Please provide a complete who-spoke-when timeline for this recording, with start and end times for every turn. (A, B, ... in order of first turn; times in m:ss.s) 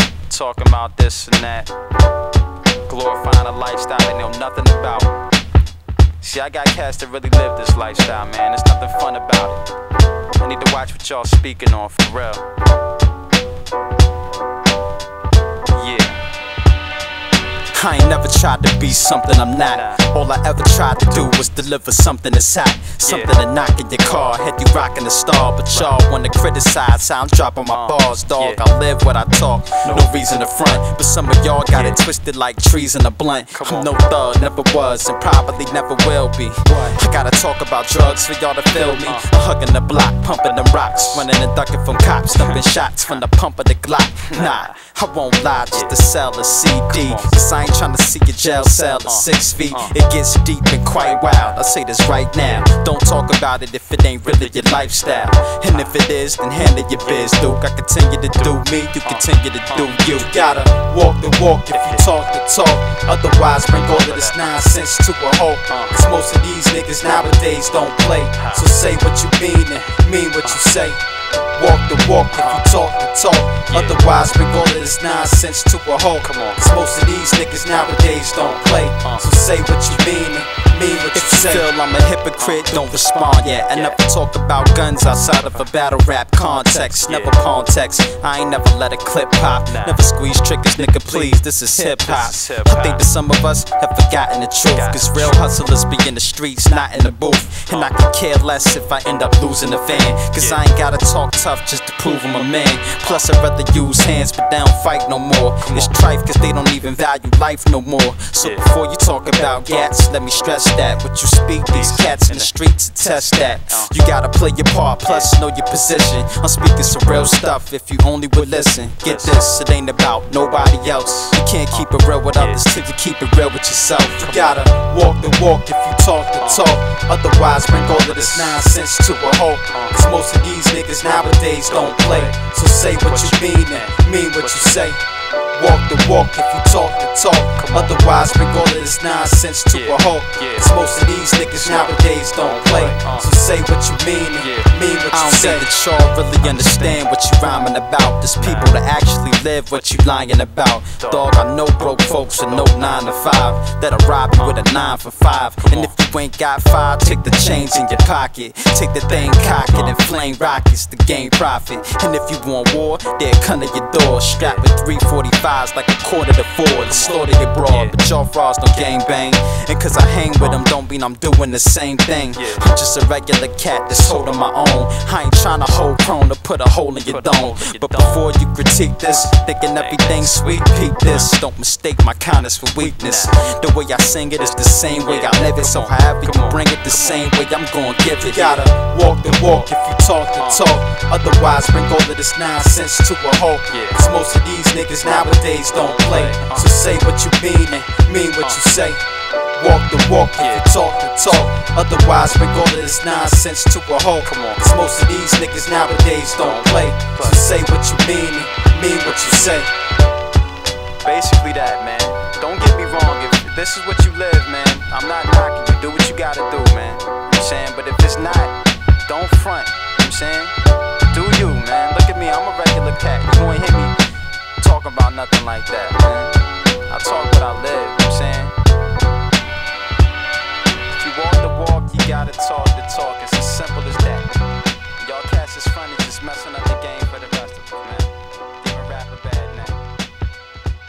0:00.3-0:01.7 A
0:02.9-0:05.1 A
0:06.2-0:09.6 A
0:10.4-0:12.4 A
0:15.7-0:16.2 A
0:17.7-1:11.0 B
0:19.6-0:20.0 A
0:23.0-0:23.3 A
0:27.7-0:28.6 A
0:29.8-0:30.4 A
0:31.7-0:32.0 A
0:33.5-0:33.9 A
0:40.4-0:41.3 A
0:42.3-0:43.2 A
0:44.3-0:44.7 A
0:46.9-0:47.3 A
0:49.0-0:50.0 A
0:50.9-0:51.6 A
0:54.4-0:56.0 A
0:58.4-1:00.6 A
1:01.7-1:02.1 A
1:03.7-1:04.4 A
1:05.7-1:06.0 A
1:08.4-1:08.7 A
1:11.6-2:15.0 B
1:12.3-1:12.7 A
1:13.7-1:14.1 A
1:16.2-1:16.7 A
1:19.0-1:19.3 A
1:21.1-1:21.6 A
1:22.4-1:23.1 A
1:23.6-1:24.0 A
1:25.2-1:25.7 A
1:26.6-1:27.4 A
1:29.6-1:30.0 A
1:31.8-1:33.0 A
1:34.7-1:35.4 A
1:37.7-1:37.9 A
1:40.1-1:40.6 A
1:45.6-1:45.9 A
1:48.4-1:48.6 A
1:51.7-1:52.5 A
1:53.1-1:53.9 A
1:55.0-1:55.3 A
1:59.0-1:59.4 A
2:00.9-2:02.6 A
2:04.2-2:04.6 A
2:06.4-2:06.7 A
2:07.7-2:08.7 A
2:09.7-2:10.1 A
2:11.6-2:12.4 A
2:13.0-2:14.9 A
2:15.5-3:19.0 B
2:17.6-2:18.0 A
2:19.7-2:20.8 A
2:21.8-2:23.3 A
2:24.4-2:25.7 A
2:26.4-2:27.1 A
2:28.4-2:28.8 A
2:29.7-2:30.1 A
2:31.0-2:31.2 A
2:31.8-2:33.1 A
2:34.3-2:34.6 A
2:35.6-2:35.9 A
2:37.0-2:38.0 A
2:39.1-2:40.2 A
2:46.8-2:48.0 A
2:52.3-2:52.6 A
2:57.0-2:58.2 A
2:59.1-3:00.6 A
3:02.8-3:03.4 A
3:04.4-3:07.3 A
3:08.2-3:08.7 A
3:09.2-3:09.7 A
3:10.4-3:10.6 A
3:13.7-3:14.0 A
3:15.7-3:16.7 A
3:19.5-3:29.7 B
3:20.4-3:20.7 A
3:24.2-3:24.7 A
3:26.3-3:27.5 A
3:31.0-3:38.5 A
3:39.1-3:40.5 A
3:41.1-3:42.7 A
3:42.7-3:43.9 B
3:44.6-3:46.3 B
3:45.8-3:46.1 A
3:46.9-3:48.5 B
3:47.7-3:48.5 A
3:51.0-3:54.4 B
3:55.0-3:58.1 B
3:58.6-3:59.8 B